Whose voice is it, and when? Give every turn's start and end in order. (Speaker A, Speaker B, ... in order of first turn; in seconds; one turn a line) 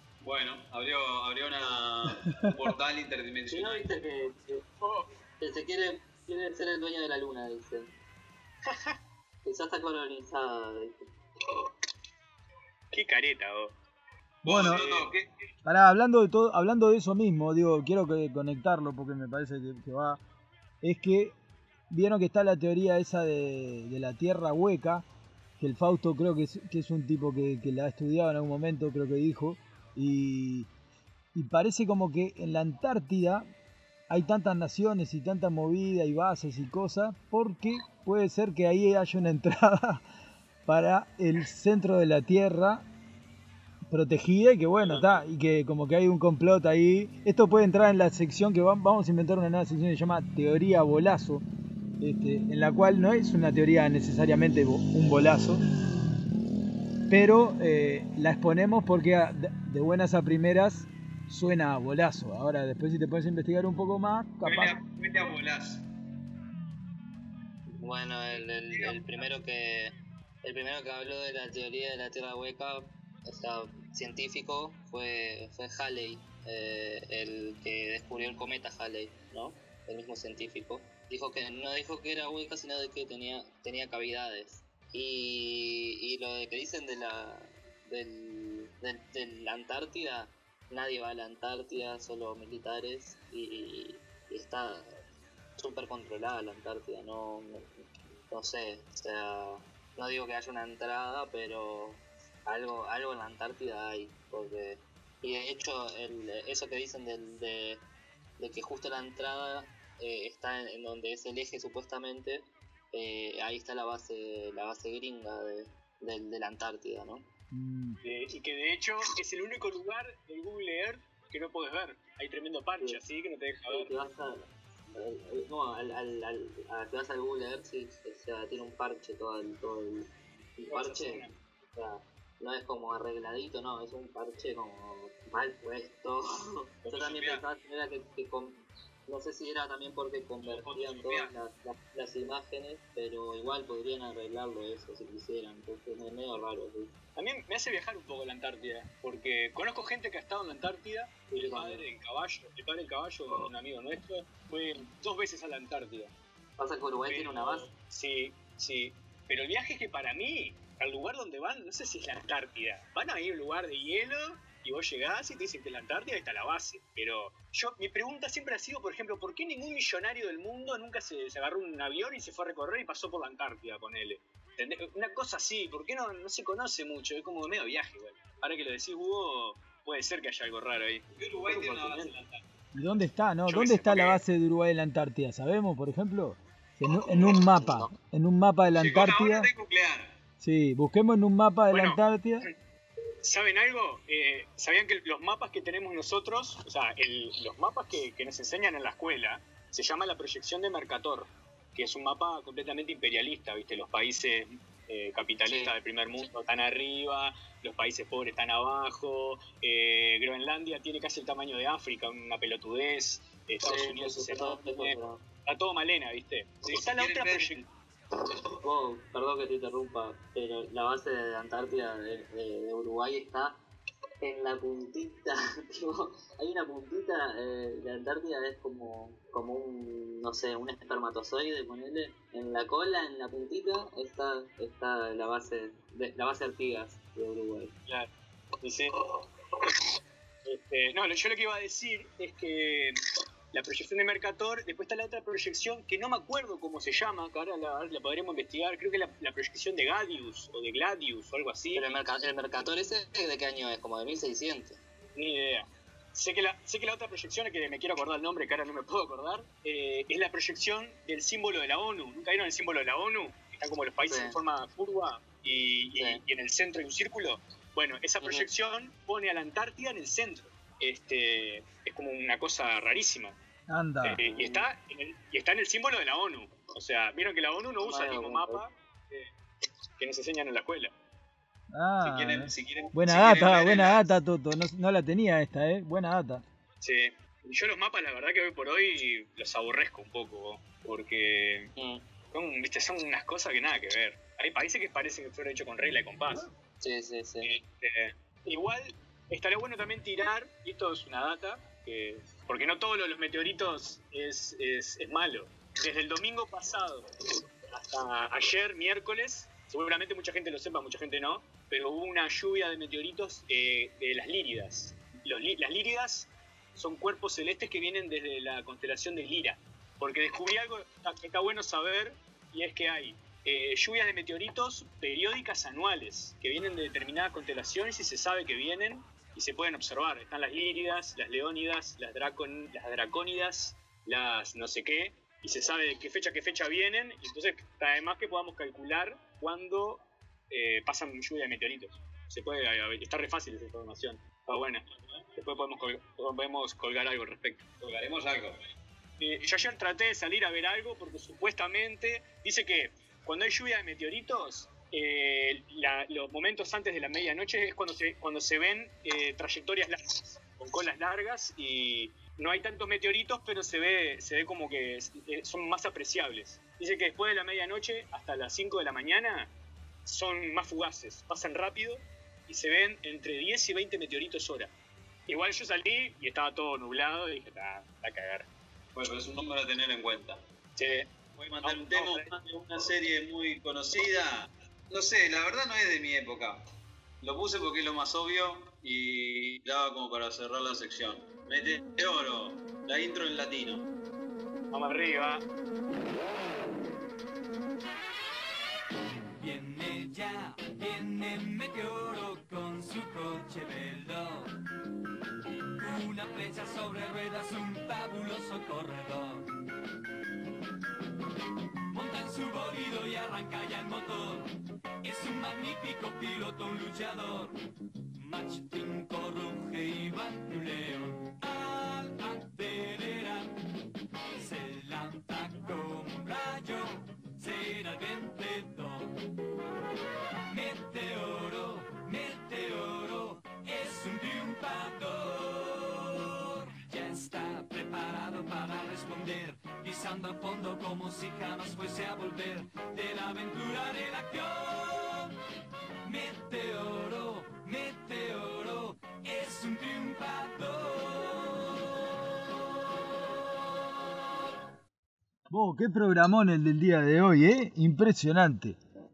Speaker A: 0.2-4.0
Speaker B: 3.5-4.6
Speaker C: 4.8-5.1
Speaker B: 5.4-7.9
Speaker B: 9.4-11.1
Speaker C: 12.9-13.8
Speaker D: 14.4-14.8
Speaker A: 14.4-15.3
Speaker C: 14.5-15.1
Speaker D: 15.6-20.2
Speaker D: 20.8-21.4
Speaker D: 21.9-25.1
Speaker D: 25.6-30.7
Speaker D: 31.3-33.5
Speaker D: 34.1-40.0
Speaker D: 40.6-42.9
Speaker D: 43.9-51.4
Speaker C: 44.8-45.2
Speaker D: 52.0-55.6
Speaker D: 57.1-64.7
Speaker A: 64.4-65.8
Speaker B: 67.8-95.0
Speaker A: 68.7-69.0
Speaker B: 95.6-97.7
Speaker B: 98.3-107.8
Speaker B: 108.4-117.2
Speaker D: 117.5-118.0
Speaker C: 118.0-123.9
Speaker B: 123.7-146.9
Speaker C: 130.7-131.3
Speaker A: 136.9-137.4
Speaker A: 140.4-141.3
Speaker C: 147.2-156.1
Speaker B: 151.3-151.8
Speaker B: 156.6-157.7
Speaker C: 157.0-182.1
Speaker A: 181.2-182.4
Speaker D: 182.7-189.5
Speaker C: 183.5-184.2
Speaker B: 187.3-187.9
Speaker A: 188.7-190.2
Speaker D: 190.4-192.5
Speaker C: 191.7-192.5
Speaker C: 193.2-217.6
Speaker B: 205.4-205.7
Speaker B: 213.6-215.2
Speaker A: 216.7-217.6
Speaker B: 218.2-223.6
Speaker B: 224.2-237.8
Speaker C: 238.6-238.9
Speaker C: 240.4-243.0
Speaker C: 243.5-251.9
Speaker B: 251.7-254.8
Speaker C: 255.2-273.3
Speaker B: 264.0-264.4
Speaker B: 265.9-266.2
Speaker B: 268.2-268.5
Speaker D: 273.7-274.2
Speaker C: 274.0-279.3
Speaker B: 274.3-274.6
Speaker B: 277.8-278.6
Speaker C: 280.0-280.9
Speaker D: 281.7-286.4
Speaker A: 282.0-284.1
Speaker C: 286.8-291.7
Speaker B: 291.8-292.0
Speaker C: 292.3-296.5
Speaker B: 296.8-297.5
Speaker C: 297.4-307.1
Speaker C: 307.7-344.8
Speaker C: 345.4-347.6
Speaker A: 347.8-348.6
Speaker C: 349.2-369.5
Speaker C: 370.1-374.7
Speaker C: 375.3-378.5
Speaker A: 378.9-380.4
Speaker C: 380.8-381.1
Speaker A: 381.4-386.6
Speaker C: 381.6-382.3
Speaker A: 387.2-393.9
Speaker C: 394.7-395.4
Speaker E: 399.4-404.5
Speaker E: 405.8-409.5
Speaker E: 411.9-417.6
Speaker E: 418.1-423.7
Speaker E: 424.3-429.1
Speaker E: 430.5-445.3
Speaker E: 446.0-452.1
Speaker D: 455.5-458.8